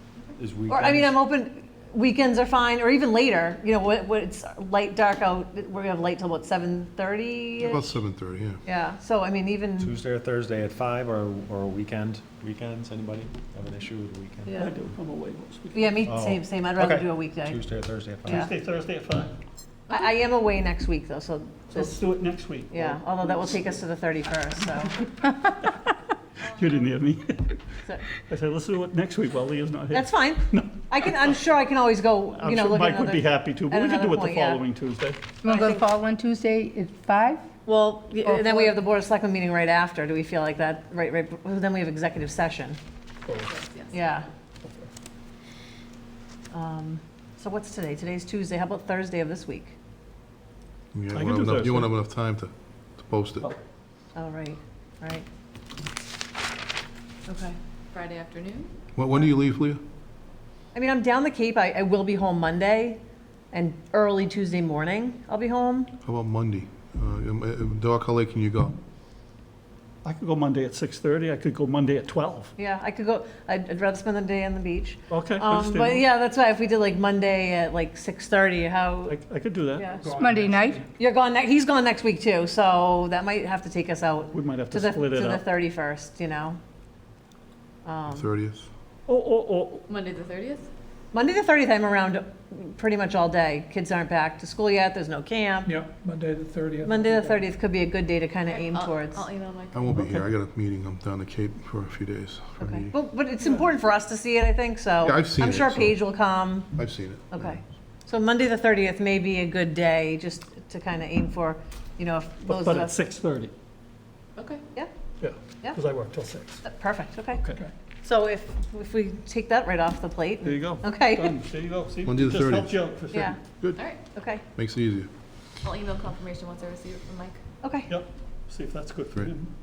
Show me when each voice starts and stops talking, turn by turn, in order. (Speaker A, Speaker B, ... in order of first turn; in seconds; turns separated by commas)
Speaker A: 0.4-1.2, Speaker B: 0.7-8.0, Speaker C: 7.6-8.6, Speaker B: 8.7-9.9, Speaker A: 9.8-14.5, Speaker B: 14.4-14.7, Speaker D: 14.5-16.0, Speaker B: 15.7-17.6, Speaker A: 16.1-18.5, Speaker D: 18.3-19.3, Speaker B: 19.9-21.9, Speaker D: 21.7-23.0, Speaker B: 22.7-25.1, Speaker D: 25.6-25.9, Speaker D: 26.4-27.6, Speaker D: 28.1-31.4, Speaker B: 29.9-34.6, Speaker D: 32.3-35.2, Speaker E: 35.4-37.4, Speaker B: 35.5-35.8, Speaker B: 37.6-42.8, Speaker D: 43.3-43.5, Speaker F: 43.5-44.1, Speaker B: 43.9-44.3, Speaker D: 44.6-44.9, Speaker B: 46.5-49.8, Speaker C: 50.9-53.5, Speaker D: 51.1-51.9, Speaker B: 54.1-55.2, Speaker B: 57.3-57.6, Speaker F: 57.9-58.7, Speaker C: 58.9-59.8, Speaker B: 60.7-63.0, Speaker B: 63.5-65.9, Speaker C: 66.0-68.8, Speaker D: 70.0-72.5, Speaker B: 72.6-79.2, Speaker D: 75.1-76.1, Speaker D: 79.1-80.5, Speaker B: 79.8-80.1, Speaker G: 80.0-80.8, Speaker E: 80.2-80.8, Speaker B: 81.0-86.6, Speaker D: 84.3-85.5, Speaker B: 87.8-88.3, Speaker C: 88.1-88.7, Speaker D: 89.1-89.9, Speaker F: 89.9-90.7, Speaker B: 91.1-95.7, Speaker G: 95.6-97.4, Speaker B: 96.8-99.3, Speaker F: 98.5-99.8, Speaker C: 99.7-102.9, Speaker D: 99.9-100.3, Speaker B: 102.6-112.9, Speaker C: 105.0-106.0, Speaker C: 106.7-107.5, Speaker D: 112.4-113.5, Speaker F: 114.3-114.6, Speaker D: 115.2-116.6, Speaker B: 116.6-117.4, Speaker D: 117.3-117.6, Speaker B: 118.0-121.4, Speaker D: 120.4-123.4, Speaker C: 122.0-122.8, Speaker B: 123.1-123.4, Speaker B: 124.1-124.4, Speaker C: 124.5-125.1, Speaker F: 125.6-127.4, Speaker B: 127.6-127.9, Speaker D: 127.9-129.5